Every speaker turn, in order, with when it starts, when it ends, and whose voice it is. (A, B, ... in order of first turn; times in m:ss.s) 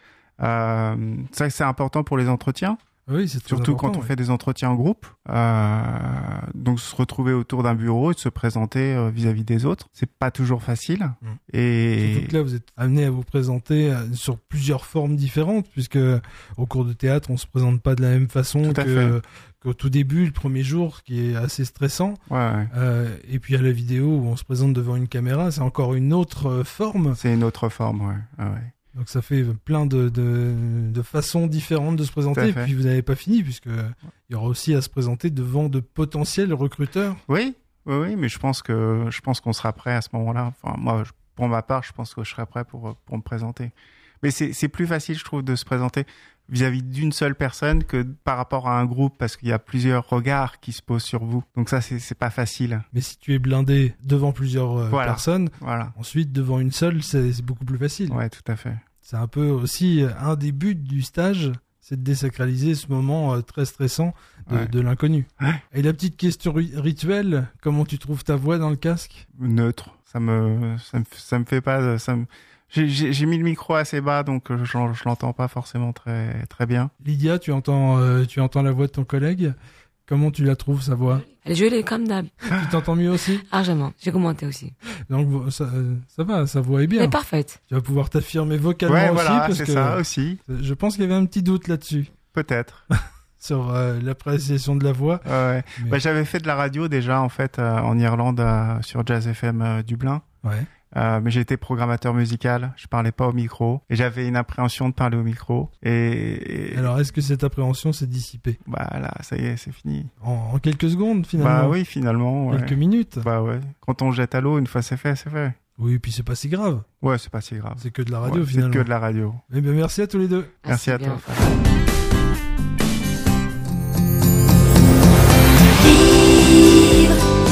0:00.4-0:02.8 A
0:03.1-0:04.1 B
0:03.5-0:12.4 A
0:12.0-0:27.2 B
0:18.6-0:19.2 A
0:22.3-0:22.7 A
0:27.2-0:28.7 A
0:28.9-0:37.2 B
0:32.4-0:32.7 A
0:37.3-0:52.9 A
0:52.9-0:58.2 B
0:54.9-0:55.9 A
0:58.1-0:58.8 A
0:59.0-1:09.3 B
1:09.4-1:16.9 A
1:17.0-1:19.6 B
1:20.1-1:21.3 B
1:21.3-1:22.3 C
1:22.5-1:23.4 B
1:23.5-1:24.8 C
1:25.1-1:27.2 B
1:26.9-1:27.6 C
1:27.7-1:32.1 B
1:28.9-1:30.4 A
1:32.3-1:32.8 A
1:32.9-1:36.0 B
1:35.2-1:40.2 A
1:40.4-1:40.7 B
1:40.9-1:46.9 A
1:46.7-1:48.6 B
1:48.7-1:50.1 A
1:50.2-1:51.8 B
1:51.4-1:55.6 A
1:52.5-1:53.3 B
1:55.8-1:56.9 B
1:57.0-1:59.4 A
1:57.8-1:58.9 B
1:59.5-2:00.6 B
2:00.6-2:01.3 C
2:00.6-2:01.6 A
2:05.9-2:07.1 C